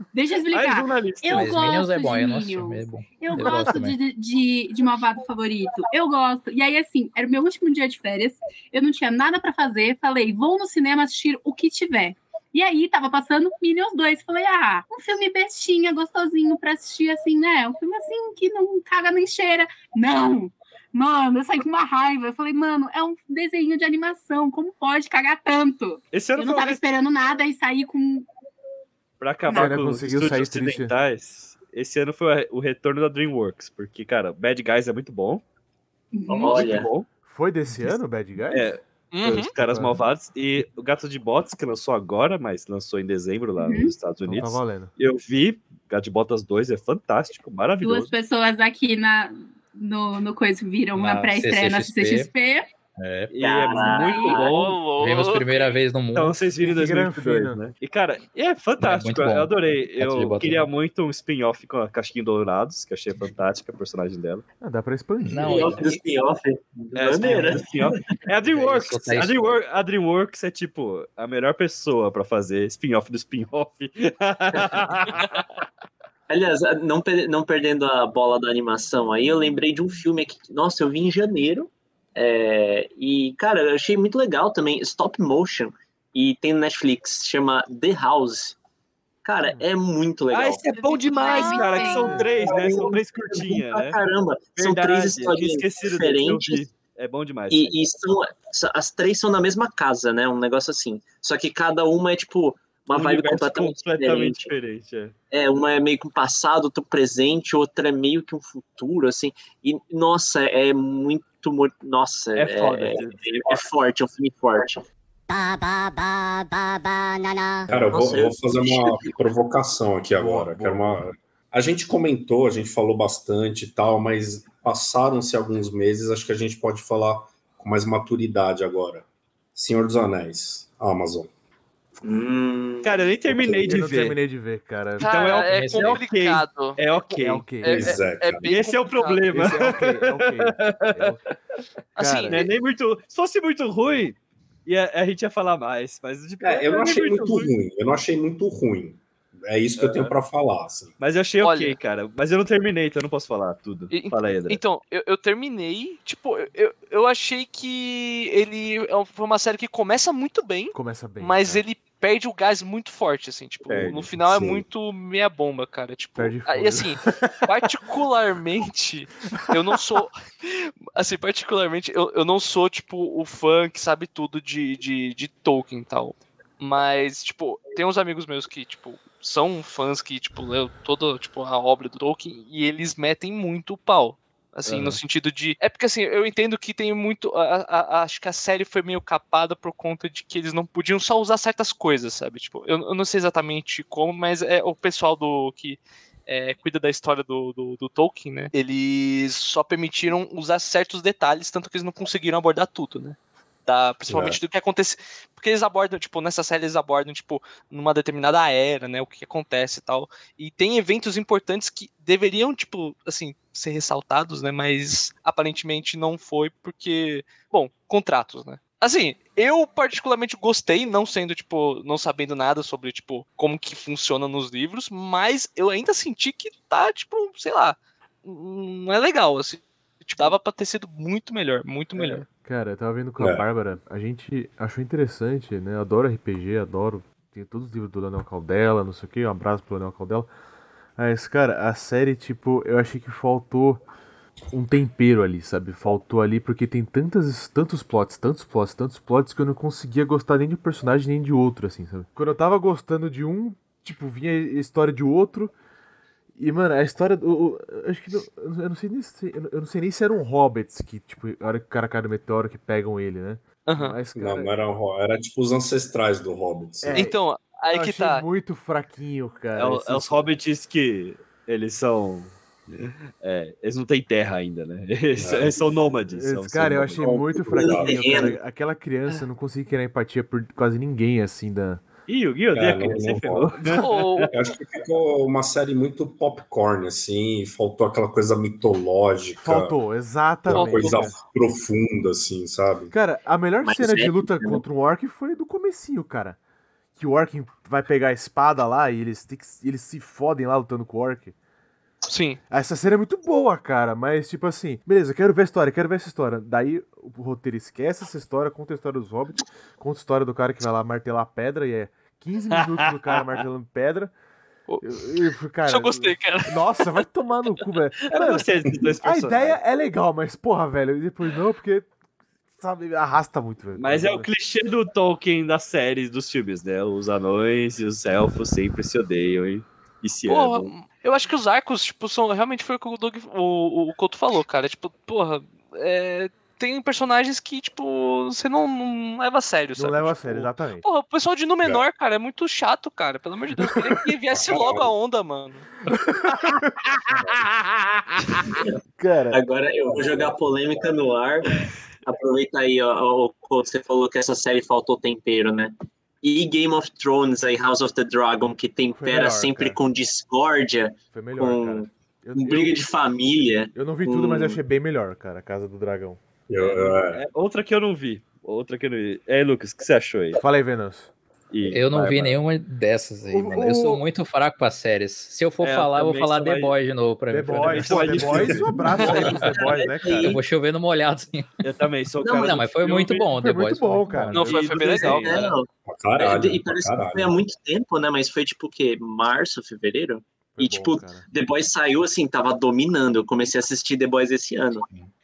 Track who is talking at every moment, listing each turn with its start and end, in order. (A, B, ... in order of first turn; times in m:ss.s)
0:00.1-0:28.3 A
0:00.5-0:01.7 B
0:01.3-0:04.0 C
0:26.1-0:26.8 B
0:29.2-0:35.4 B
0:29.4-0:29.7 A
0:29.5-0:30.9 D
0:36.1-0:36.7 A
0:36.3-0:36.9 E
0:36.4-0:37.1 B
0:37.2-0:38.8 D
0:38.5-0:48.1 B
0:39.1-0:39.5 F
0:39.6-0:40.0 D
0:43.6-0:43.9 A
0:44.3-0:44.9 D
0:47.8-0:52.7 A
0:50.9-0:52.3 C
0:53.0-0:53.3 C
0:53.3-0:54.9 B
0:53.4-0:54.6 E
0:53.7-0:54.4 A
0:54.4-0:55.8 F
0:54.9-0:56.5 C
0:56.1-1:04.4 B
0:56.6-0:57.6 D
0:58.8-1:00.7 C
1:04.6-1:05.8 D
1:05.2-1:05.9 C
1:05.4-1:08.2 E
1:06.9-1:15.4 B
1:07.2-1:07.5 C
1:08.4-1:09.6 C
1:16.3-1:28.6 E
1:29.2-1:30.6 E
1:30.3-1:34.0 B
1:30.7-1:32.4 A
1:31.3-1:36.6 E
1:32.0-1:32.3 D
1:34.6-1:37.7 B
1:37.5-1:44.5 E
1:42.9-1:45.1 B
1:45.3-1:54.9 E
1:52.4-1:53.6 B
1:55.3-1:57.7 G
1:57.7-2:11.3 H
1:57.8-1:59.2 E
2:00.1-2:01.1 D
2:12.0-2:13.6 E
2:12.8-2:14.2 B
2:13.4-2:13.6 H
2:13.4-2:15.1 D
2:15.0-2:16.8 F
2:15.0-2:17.6 B
2:15.4-2:16.0 C
2:17.2-2:18.0 D
2:17.6-2:19.3 F
2:17.6-2:18.4 H
2:18.4-2:21.2 B
2:19.3-2:21.2 D
2:22.0-2:22.5 F
2:22.0-2:22.4 D
2:22.3-2:27.5 B
2:26.4-2:30.9 H
2:29.8-2:30.1 B
2:31.0-2:34.6 B
2:31.4-2:31.8 F
2:33.9-3:52.3 F
2:40.7-2:41.6 D
2:43.7-2:44.1 B
2:44.2-2:44.6 H
2:46.2-2:47.6 D
3:24.1-3:24.4 H
3:52.4-4:00.3 D
4:01.0-4:03.8 D
4:04.5-4:15.5 D
4:16.4-4:24.5 D
4:23.7-4:24.0 F
4:24.2-4:27.1 H
4:26.8-4:30.3 D
4:26.9-4:28.2 F
4:29.6-4:37.1 B
4:35.2-4:35.6 H
4:36.1-4:41.8 D
4:37.0-4:38.3 H
4:37.5-4:38.4 E
4:42.1-4:44.3 B
4:42.5-4:49.8 H
4:43.8-4:44.3 F
4:49.4-4:51.1 D
4:50.4-4:52.9 H
4:50.5-4:51.0 F
4:52.9-4:56.4 D
4:53.6-4:54.6 E
4:57.0-5:01.4 D
5:02.1-5:02.4 F
5:02.5-5:14.1 D
5:12.7-5:13.2 B
5:14.7-5:16.9 F
5:14.8-5:18.5 D
5:18.1-5:19.6 B
5:19.0-5:21.9 D
5:22.5-5:24.3 D
5:23.8-5:30.7 B
5:30.3-5:45.7 F
5:39.8-5:40.8 D
5:43.6-5:44.0 D
5:44.3-5:44.9 H
5:45.9-5:47.1 D
5:47.1-5:47.5 H
5:48.5-5:48.7 E
5:49.0-5:49.4 D
5:49.3-6:04.6 E
5:58.9-5:59.8 D
6:01.1-6:02.9 D
6:03.7-6:06.2 D
6:06.5-6:07.2 H
6:06.6-6:10.4 B
6:10.4-6:11.1 D
6:11.5-6:12.4 B
6:11.7-6:21.6 C
6:13.3-6:14.0 D
6:15.6-6:16.7 B
6:17.3-6:20.4 D
6:17.5-6:19.2 B
6:18.2-6:18.7 H
6:19.0-6:20.4 E
6:21.6-6:23.2 B
6:22.2-6:22.5 E
6:22.3-6:24.5 C
6:23.4-6:24.7 D
6:24.3-6:25.5 F
6:24.4-6:25.4 B
6:25.0-6:25.7 E
6:25.9-6:27.4 H
6:26.2-6:34.8 E
6:30.6-6:31.3 D